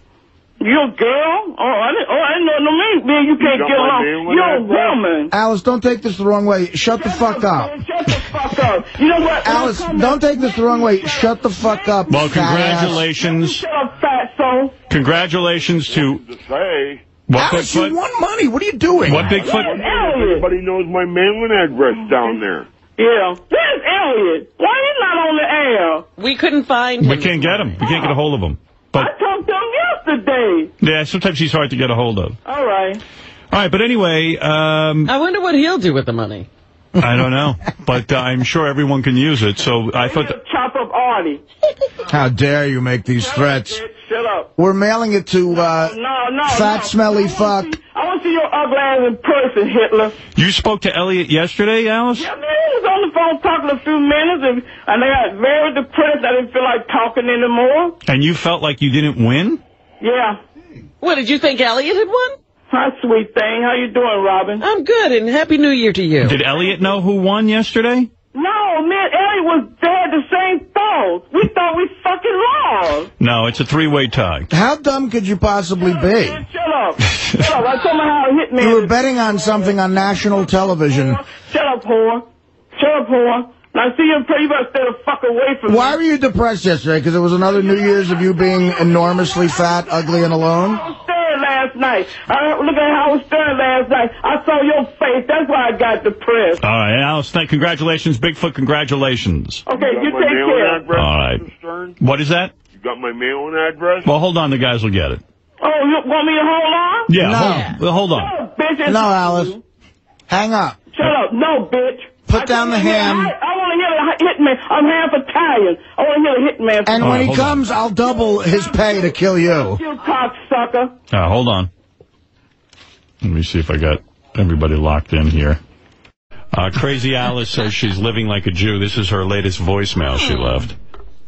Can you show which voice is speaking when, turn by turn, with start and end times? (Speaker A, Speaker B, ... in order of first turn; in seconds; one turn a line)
Speaker A: 0.6-5.3
Speaker B: 3.4-5.0
Speaker C: 5.3-7.8
Speaker A: 7.0-14.8
Speaker C: 9.4-13.1
Speaker D: 12.1-13.7
Speaker D: 14.9-16.2
Speaker B: 15.7-17.1
Speaker D: 17.3-18.0
Speaker C: 17.3-19.4
Speaker D: 19.1-19.7
Speaker B: 19.3-22.7
Speaker A: 19.3-20.5
Speaker A: 23.0-26.1
Speaker E: 26.2-27.8
Speaker D: 27.0-29.1
Speaker A: 27.8-28.2
Speaker A: 28.9-30.7
Speaker D: 30.8-32.4
Speaker A: 32.5-33.0
Speaker D: 33.5-35.1
Speaker E: 35.0-36.5
Speaker C: 37.0-37.3
Speaker D: 37.0-40.3
Speaker A: 40.0-41.4
Speaker C: 42.1-43.8
Speaker A: 43.2-44.5
Speaker C: 44.6-47.7
Speaker A: 45.6-50.2
Speaker D: 50.4-52.3
Speaker A: 52.2-58.0
Speaker D: 58.1-59.6
Speaker A: 60.0-60.4
Speaker E: 61.0-62.4
Speaker A: 62.7-64.6
Speaker E: 64.6-66.4
Speaker D: 66.2-68.1
Speaker A: 68.3-73.1
Speaker D: 73.2-74.5
Speaker C: 74.5-76.4
Speaker A: 75.8-79.3
Speaker C: 78.6-81.2
Speaker A: 80.7-82.2
Speaker A: 82.8-86.0
Speaker C: 85.7-90.8
Speaker A: 90.7-96.6
Speaker D: 96.6-99.7
Speaker A: 99.7-100.8
Speaker B: 99.7-102.0
Speaker D: 100.9-101.4
Speaker D: 102.0-102.5
Speaker B: 102.8-104.1
Speaker D: 104.0-105.2
Speaker A: 105.6-107.1
Speaker D: 107.1-108.3
Speaker C: 107.2-107.7
Speaker E: 107.4-107.8
Speaker A: 108.0-109.6
Speaker C: 108.8-109.5
Speaker C: 110.3-110.8
Speaker A: 110.9-117.1
Speaker C: 112.3-113.3
Speaker C: 116.8-119.8
Speaker D: 117.0-117.6
Speaker A: 119.8-120.9
Speaker D: 121.1-121.7
Speaker D: 123.2-125.6
Speaker D: 126.5-130.8